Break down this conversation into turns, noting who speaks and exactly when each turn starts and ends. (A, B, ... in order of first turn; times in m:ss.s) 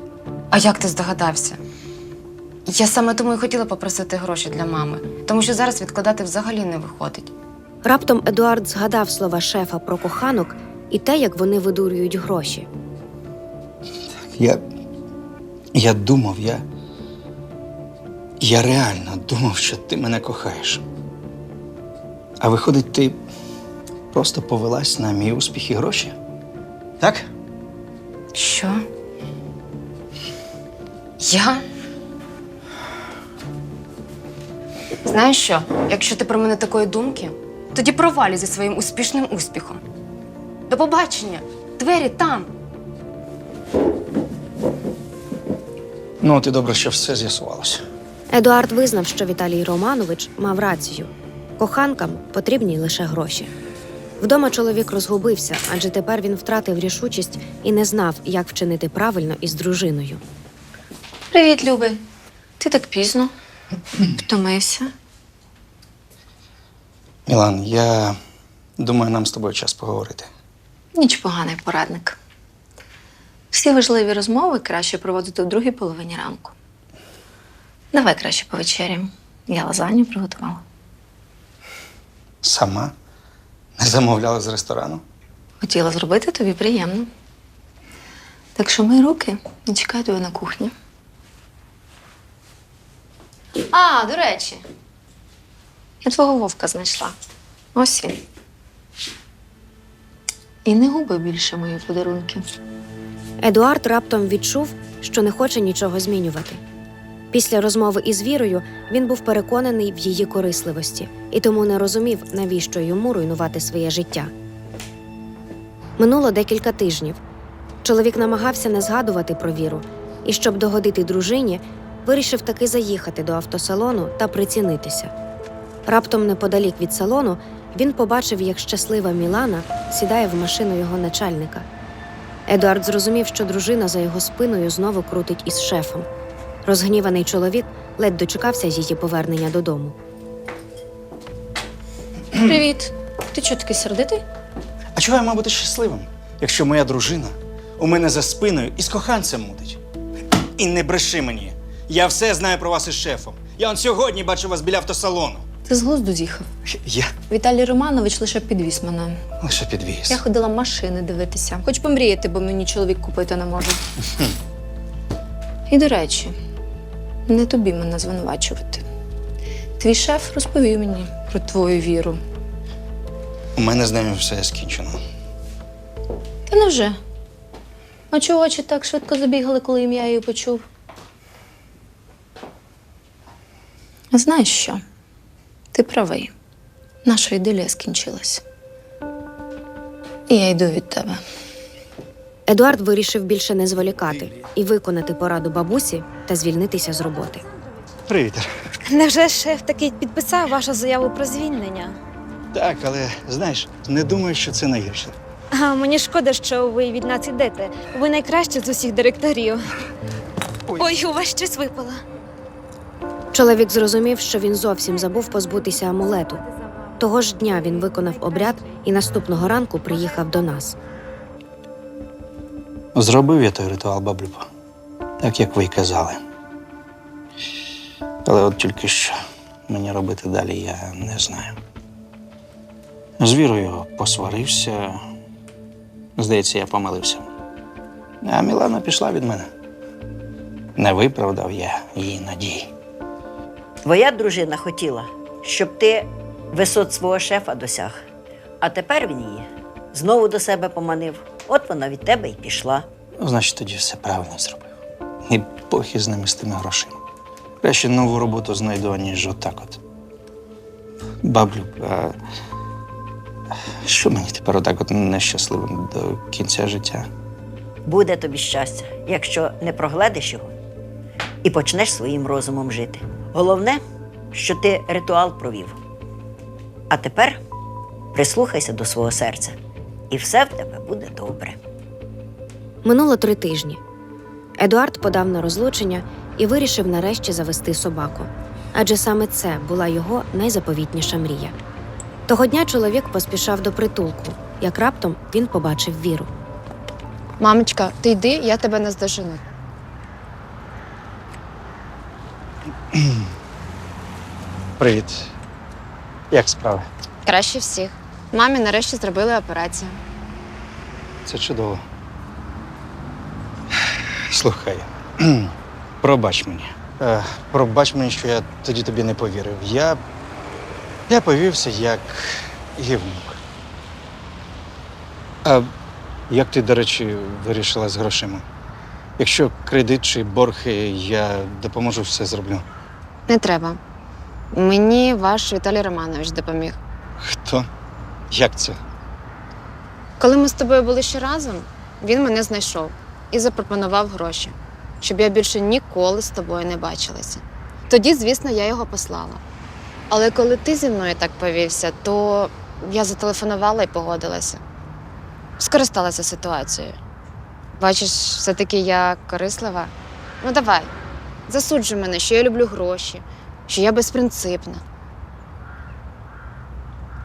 0:00.5-0:01.6 A
0:02.7-0:07.3 A
0:07.8-0:12.7 B
0:14.4-0:14.6 C
0:15.7-0:16.6 C
0:18.4-0:20.8 C
0:22.4-0:23.2 C
0:24.1-0:26.1 C
0:27.0-0:27.3 C
0:28.3-0:28.8 A
0:31.2-0:31.6 A
0:35.0-0:39.8 A
0:40.7-0:42.5 A
0:46.2-0:47.8 C
0:48.3-0:53.5 B
0:54.2-1:00.2 B
1:01.3-1:02.0 D
1:02.6-1:03.3 D
1:04.0-1:04.9 D
1:07.3-1:08.2 C
1:08.8-1:10.3 C
1:11.0-1:12.2 D
1:13.5-1:16.5 D
1:17.9-1:20.6 D
1:22.4-1:22.9 C
1:23.8-1:25.0 C
1:25.6-1:27.1 D
1:28.6-1:30.7 D
1:33.7-1:34.6 D
1:36.0-1:37.1 D
1:37.7-1:38.2 D
1:40.6-1:42.4 D
1:43.4-1:46.6 B
1:47.3-1:54.3 B
1:56.0-1:57.2 B
1:57.8-2:05.1 B
2:05.9-2:11.6 B
2:12.5-2:16.1 B
2:16.6-2:20.0 B
2:22.3-2:24.2 D
2:24.9-2:29.8 C
2:30.6-2:35.4 C
2:35.6-2:36.5 D
2:36.7-2:37.1 C
2:37.3-2:39.2 D
2:39.4-2:40.2 C
2:40.1-2:43.8 D
2:45.7-2:46.4 D
2:47.3-2:48.8 D
2:49.8-2:52.2 D
2:53.6-2:55.0 C
2:56.5-2:57.0 D
2:58.1-3:00.6 D
3:04.1-3:04.8 D
3:05.7-3:06.3 D
3:07.0-3:08.4 D
3:10.3-3:11.2 D
3:12.5-3:17.4 B
3:18.1-3:18.5 C
3:18.9-3:22.0 E
3:22.5-3:25.1 C
3:25.5-3:29.6 E
3:30.7-3:32.0 E
3:33.3-3:36.4 B
3:37.0-3:40.8 B
3:42.9-3:44.5 C
3:45.2-3:46.2 C
3:48.2-3:49.1 C
3:49.7-3:51.6 C
3:53.2-3:55.0 C
3:56.2-3:57.2 C
3:58.2-3:59.5 C
4:00.8-4:02.7 C
4:03.8-4:08.0 F
4:08.6-4:12.9 F
4:13.2-4:14.7 C
4:15.3-4:17.0 C
4:17.6-4:19.8 C
4:21.2-4:22.2 C
4:23.8-4:27.1 C
4:27.9-4:30.5 F
4:31.4-4:33.8 F
4:34.3-4:35.8 F
4:36.9-4:37.4 F
4:38.1-4:39.6 F
4:40.1-4:41.6 F
4:42.8-4:43.8 B
4:44.6-4:51.6 B
4:52.3-4:56.3 B
4:57.4-4:59.5 A
5:02.9-5:03.2 C
5:04.8-5:05.3 C
5:06.3-5:06.9 C
5:07.2-5:10.0 A
5:11.2-5:11.8 C
5:14.3-5:20.0 C
5:21.1-5:23.4 C
5:25.4-5:25.7 C
5:26.3-5:28.4 C
5:29.2-5:32.6 C
5:33.3-5:33.8 A
5:34.5-5:36.8 A
5:37.2-5:37.7 C
5:38.3-5:38.8 C
5:40.2-5:49.4 A
5:50.1-5:54.6 A
5:55.6-5:57.0 A
5:57.8-6:00.9 A
6:01.5-6:04.8 A